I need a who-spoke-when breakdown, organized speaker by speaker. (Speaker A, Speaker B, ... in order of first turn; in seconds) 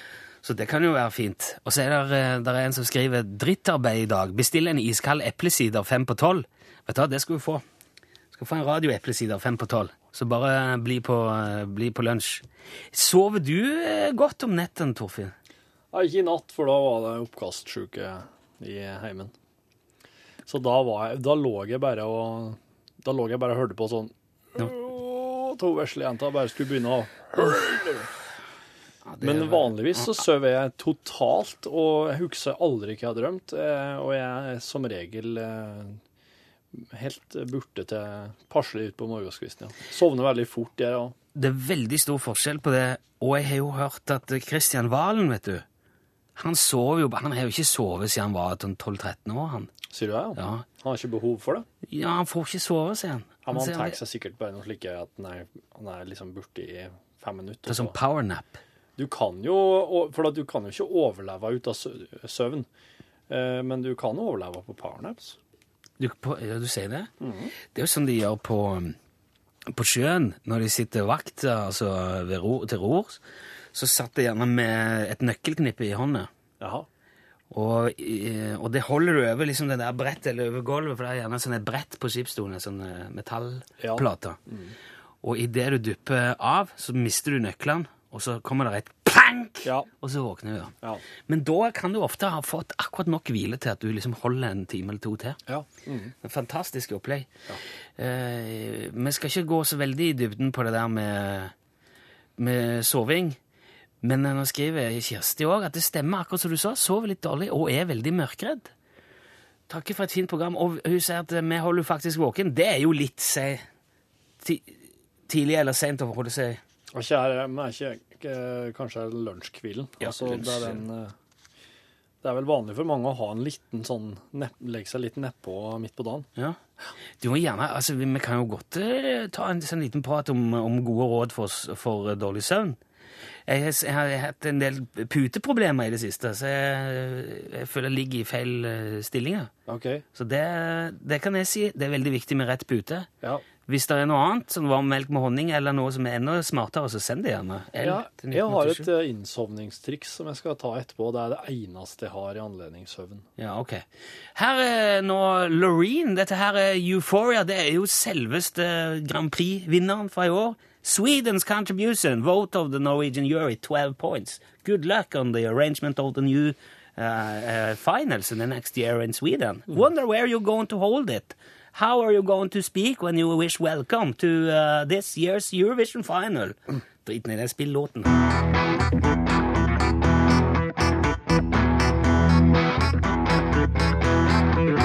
Speaker A: 0.4-7.6, 8.3-15.3, 29.0-30.2, 41.3-45.6, 46.4-49.7, 50.3-50.6, 51.9-54.0, 57.6-58.6, 66.0-67.1, 67.7-69.0, 69.7-73.2, 73.7-76.3, 77.5-84.4, 85.2-90.7, 91.3-95.4, 96.2-97.3, 98.0-101.5, 102.4-103.4, 104.0-108.7, 109.7-113.6, 114.4-114.8, 115.3-116.6, 120.0-120.8, 127.2-132.8, 133.5-139.5, 140.1-143.1, 143.7-148.9, 153.4-178.2
Speaker B: 15.9-19.3, 20.5-28.0, 29.2-36.0, 36.7-41.1, 49.9-51.6, 53.5-57.9, 59.0-62.7, 63.3-65.3, 67.2-67.5, 76.6-76.8, 83.8-84.7, 95.5-96.1, 116.9-121.1, 122.2-126.3, 139.7-140.0, 147.8-153.3